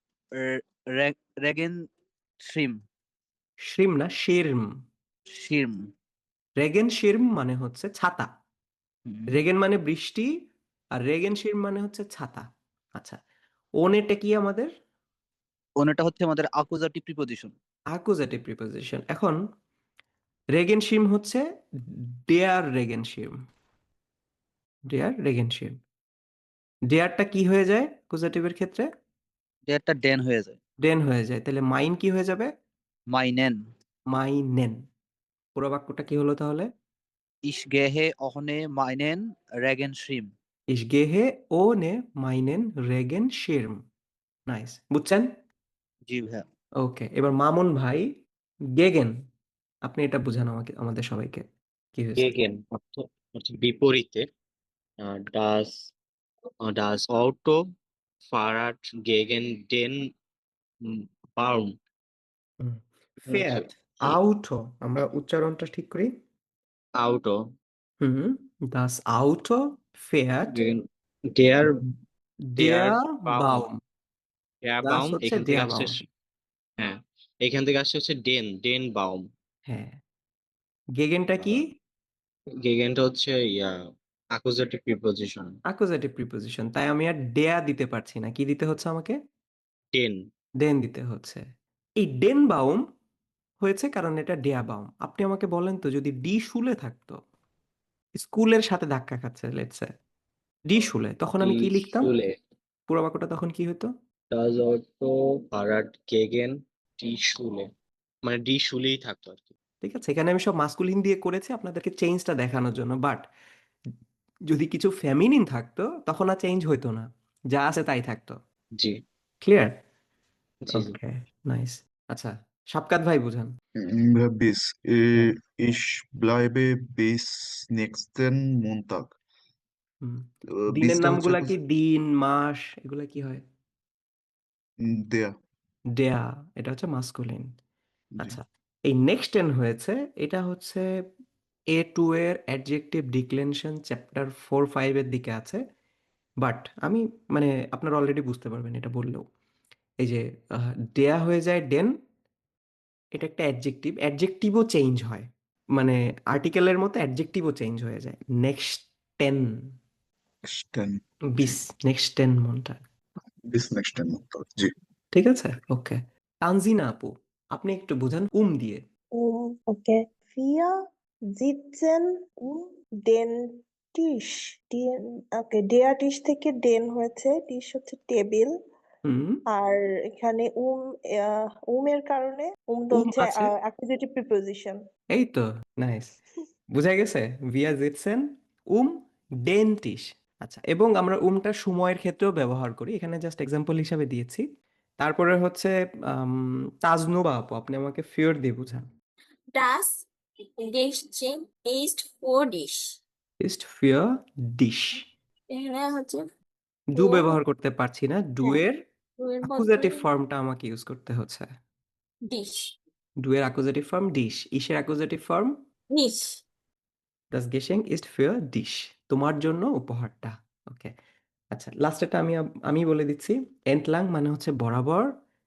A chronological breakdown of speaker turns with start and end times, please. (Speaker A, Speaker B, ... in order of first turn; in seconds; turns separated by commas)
Speaker A: 0.4-1.8, Speaker A: 2.4-2.8, Speaker B: 3.6-4.7, Speaker A: 5.3-5.8, Speaker B: 6.6-8.3, Speaker B: 9.3-10.3, Speaker B: 11.0-13.2, Speaker B: 13.8-14.7, Speaker A: 15.8-17.5, Speaker B: 17.9-19.4, Speaker B: 20.5-21.4, Speaker B: 22.3-23.4, Speaker B: 24.9-25.8, Speaker B: 26.9-28.9, Speaker A: 29.7-30.6, Speaker B: 30.8-32.5, Speaker A: 33.1-33.6, Speaker B: 34.1-34.8, Speaker B: 35.5-36.7, Speaker A: 37.5-40.3, Speaker B: 40.7-43.8, Speaker B: 44.5-45.3, Speaker A: 46.1-46.4, Speaker B: 46.8-48.1, Speaker B: 48.7-49.2, Speaker B: 49.8-52.3, Speaker C: 52.1-54.2, Speaker C: 55.0-55.9, Speaker C: 56.6-57.6, Speaker C: 58.3-60.0, Speaker C: 60.9-61.7, Speaker B: 62.6-66.1, Speaker C: 63.2-64.1, Speaker C: 67.0-67.5, Speaker B: 68.0-70.6, Speaker C: 70.5-71.7, Speaker B: 72.5-73.8, Speaker C: 72.6-73.6, Speaker C: 74.6-76.0, Speaker B: 74.8-76.0, Speaker C: 76.8-79.3, Speaker B: 79.7-80.0, Speaker B: 81.0-81.7, Speaker C: 82.6-83.8, Speaker C: 84.3-85.5, Speaker B: 85.7-89.2, Speaker C: 89.9-90.2, Speaker B: 90.6-91.5, Speaker B: 92.0-92.8, Speaker B: 93.6-97.2, Speaker B: 98.1-99.9, Speaker B: 100.7-102.1, Speaker C: 100.8-102.3, Speaker B: 102.9-103.9, Speaker C: 104.3-107.7, Speaker C: 108.2-109.5, Speaker B: 109.8-113.2, Speaker B: 114.5-118.4, Speaker B: 119.4-119.7, Speaker C: 120.7-120.9, Speaker B: 120.7-123.5, Speaker D: 123.8-129.1, Speaker B: 130.0-133.4, Speaker D: 130.5-131.5, Speaker D: 134.8-135.3, Speaker B: 135.9-137.5, Speaker B: 138.2-140.9, Speaker B: 141.7-145.6, Speaker B: 146.4-149.3, Speaker B: 150.0-151.9, Speaker B: 153.1-159.7, Speaker D: 160.4-161.6, Speaker B: 161.3-162.8, Speaker D: 163.4-164.7, Speaker B: 165.1-168.8, Speaker E: 169.2-170.7, Speaker E: 171.3-173.3, Speaker E: 173.9-178.5, Speaker B: 179.0-179.4, Speaker E: 179.5-184.8, Speaker B: 182.9-183.5, Speaker B: 185.1-186.1, Speaker B: 186.7-194.4, Speaker B: 195.0-198.9, Speaker F: 199.5-200.0, Speaker F: 200.6-202.8, Speaker B: 203.4-205.0, Speaker F: 205.5-206.2, Speaker B: 206.9-208.7, Speaker F: 206.9-207.3, Speaker F: 209.2-210.1, Speaker B: 209.4-211.5, Speaker F: 212.3-212.6, Speaker B: 213.2-215.5, Speaker F: 215.9-216.2, Speaker B: 217.3-220.9, Speaker B: 221.5-225.1